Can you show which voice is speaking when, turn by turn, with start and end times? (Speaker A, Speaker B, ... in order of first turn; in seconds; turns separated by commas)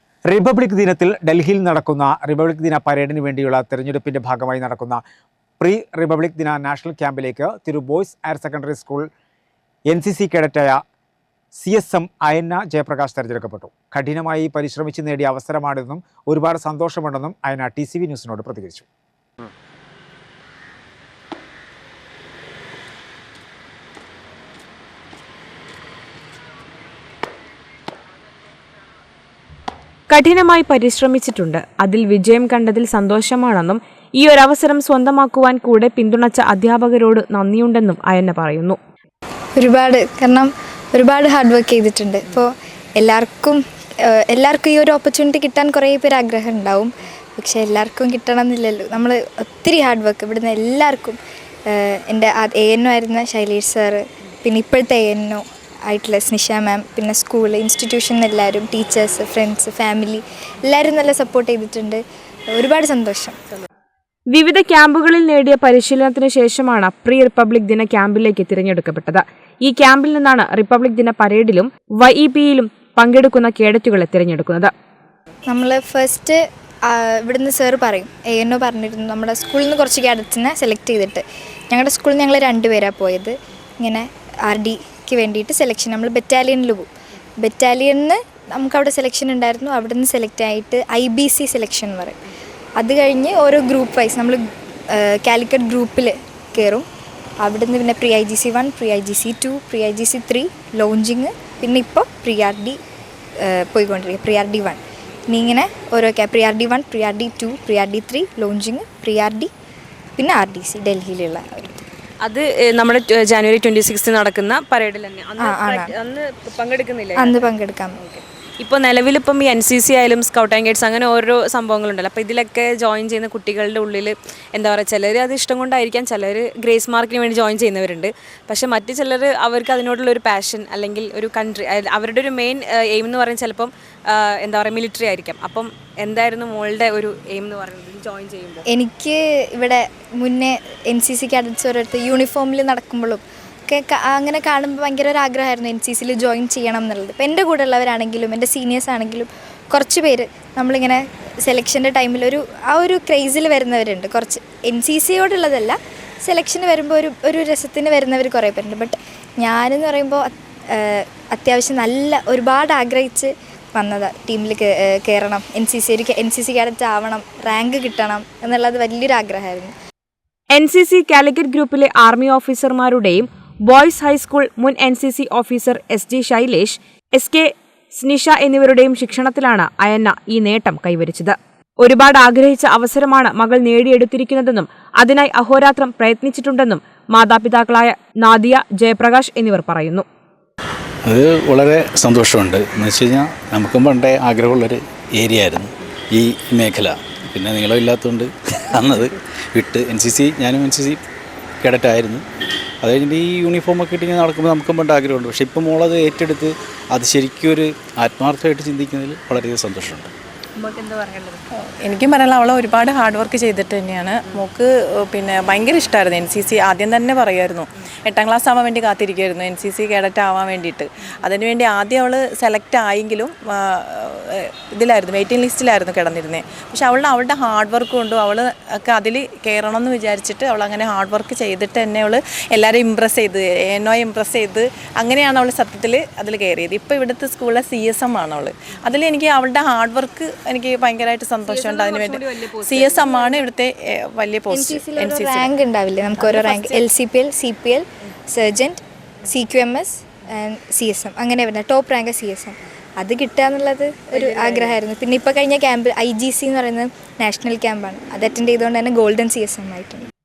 Speaker A: 0.3-5.0, Speaker A: 5.6-9.1, Speaker A: 9.9-10.8, Speaker A: 11.6-18.9, Speaker B: 30.1-38.8, Speaker C: 39.6-62.0, Speaker C: 62.5-63.4, Speaker B: 64.3-74.7, Speaker C: 75.5-92.2, Speaker C: 92.8-96.8, Speaker C: 97.4-102.8, Speaker C: 103.5-109.5, Speaker C: 110.2-111.8, Speaker D: 112.2-138.7, Speaker C: 115.4-115.9, Speaker C: 117.2-118.0, Speaker C: 138.7-169.7, Speaker B: 170.5-190.1, Speaker E: 191.1-201.0, Speaker E: 201.6-202.2, Speaker E: 202.8-210.1, Speaker D: 210.6-211.4, Speaker F: 211.8-245.5, Speaker D: 241.5-243.4, Speaker C: 244.5-260.1, Speaker F: 246.2-246.9, Speaker F: 254.2-254.7